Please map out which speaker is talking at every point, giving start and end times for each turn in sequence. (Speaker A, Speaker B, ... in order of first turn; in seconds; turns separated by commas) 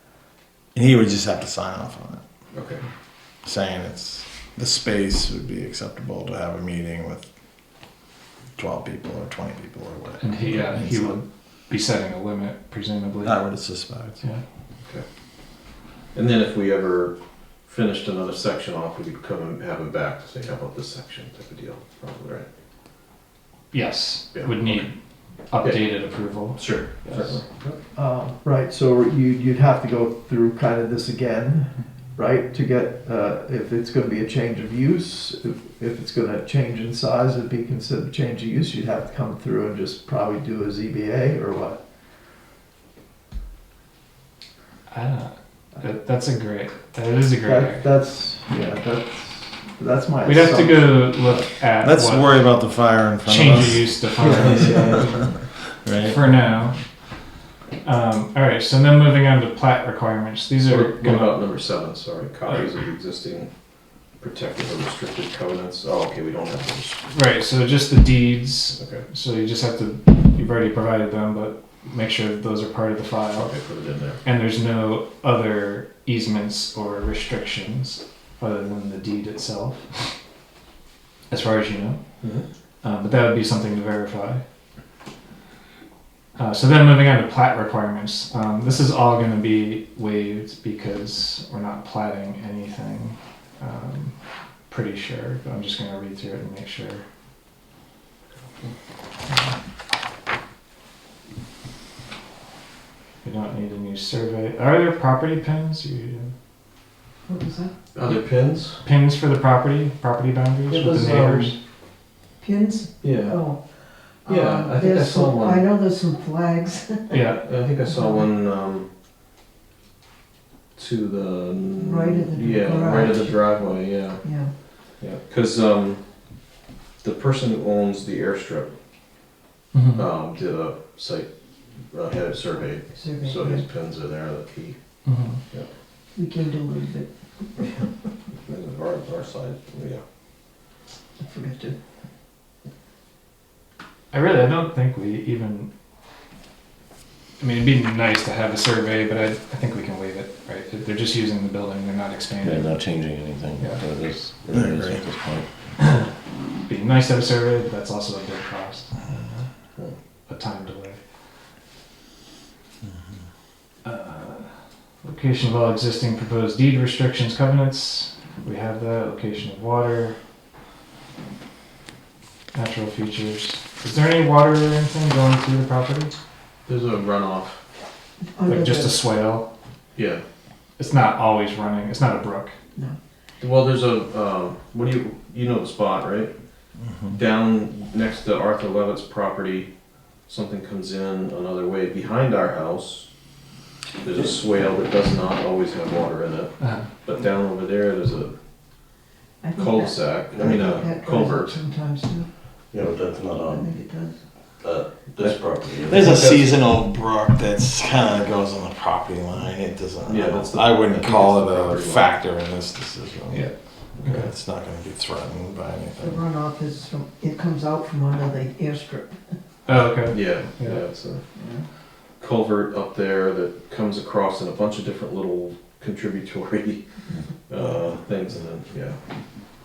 Speaker A: 0.7-2.2, Speaker B: 2.5-2.8, Speaker A: 3.4-7.3, Speaker A: 8.6-11.2, Speaker C: 10.2-14.4, Speaker A: 13.2-14.2, Speaker B: 16.1-22.5, Speaker C: 23.7-24.9, Speaker B: 24.3-24.9, Speaker C: 25.5-27.4, Speaker B: 25.6-27.8, Speaker D: 27.9-41.8, Speaker C: 44.9-47.9, Speaker D: 47.4-51.2, Speaker C: 50.2-52.6, Speaker A: 51.8-55.3, Speaker C: 53.2-56.8, Speaker D: 54.2-54.9, Speaker B: 54.5-54.9, Speaker A: 55.8-56.4, Speaker C: 57.8-61.5, Speaker B: 60.7-63.5, Speaker B: 64.2-67.0, Speaker C: 67.1-73.6, Speaker B: 68.8-69.0, Speaker B: 73.4-74.2, Speaker C: 74.2-80.1, Speaker C: 81.3-82.0, Speaker B: 82.2-82.5, Speaker C: 82.8-84.4, Speaker C: 86.4-94.2, Speaker C: 94.7-97.0, Speaker C: 99.3-99.5, Speaker C: 103.2-106.3, Speaker E: 107.3-107.7, Speaker B: 107.9-108.8, Speaker C: 108.8-111.5, Speaker B: 110.7-111.5, Speaker E: 112.4-113.6, Speaker B: 113.0-113.4, Speaker E: 114.2-117.2, Speaker B: 114.2-115.6, Speaker C: 117.1-117.4, Speaker B: 117.4-118.9, Speaker E: 117.9-118.2, Speaker B: 120.8-124.2, Speaker E: 121.7-123.5, Speaker E: 124.2-124.5, Speaker B: 125.0-126.0, Speaker B: 127.0-128.8, Speaker C: 129.7-130.1, Speaker B: 130.0-131.3, Speaker B: 131.9-134.8, Speaker E: 132.9-133.7, Speaker C: 135.0-135.4, Speaker E: 136.1-137.8, Speaker B: 138.4-140.0, Speaker E: 141.2-141.8, Speaker C: 144.1-145.7, Speaker C: 147.4-152.8, Speaker F: 152.4-155.5, Speaker C: 153.6-153.8, Speaker A: 154.5-155.0, Speaker C: 156.6-159.5, Speaker C: 160.3-161.0, Speaker C: 163.8-164.5, Speaker C: 165.0-170.2, Speaker C: 172.5-176.1, Speaker B: 176.7-177.6, Speaker E: 178.3-179.0, Speaker C: 178.5-179.5, Speaker B: 179.9-180.2, Speaker C: 180.8-182.5, Speaker B: 183.4-186.3, Speaker A: 186.9-187.2, Speaker B: 187.1-189.7, Speaker B: 190.3-193.1, Speaker B: 194.0-198.3, Speaker C: 196.6-196.9, Speaker E: 199.4-202.3, Speaker B: 199.6-201.6, Speaker F: 200.3-200.8, Speaker F: 202.7-203.8, Speaker E: 203.4-204.2, Speaker F: 204.6-206.1, Speaker B: 205.2-206.4, Speaker A: 205.9-216.2, Speaker B: 210.0-212.1, Speaker B: 214.0-214.3, Speaker E: 216.0-219.3, Speaker C: 219.7-220.8, Speaker B: 220.1-221.2, Speaker E: 221.3-221.7, Speaker B: 222.2-226.8, Speaker B: 227.5-229.0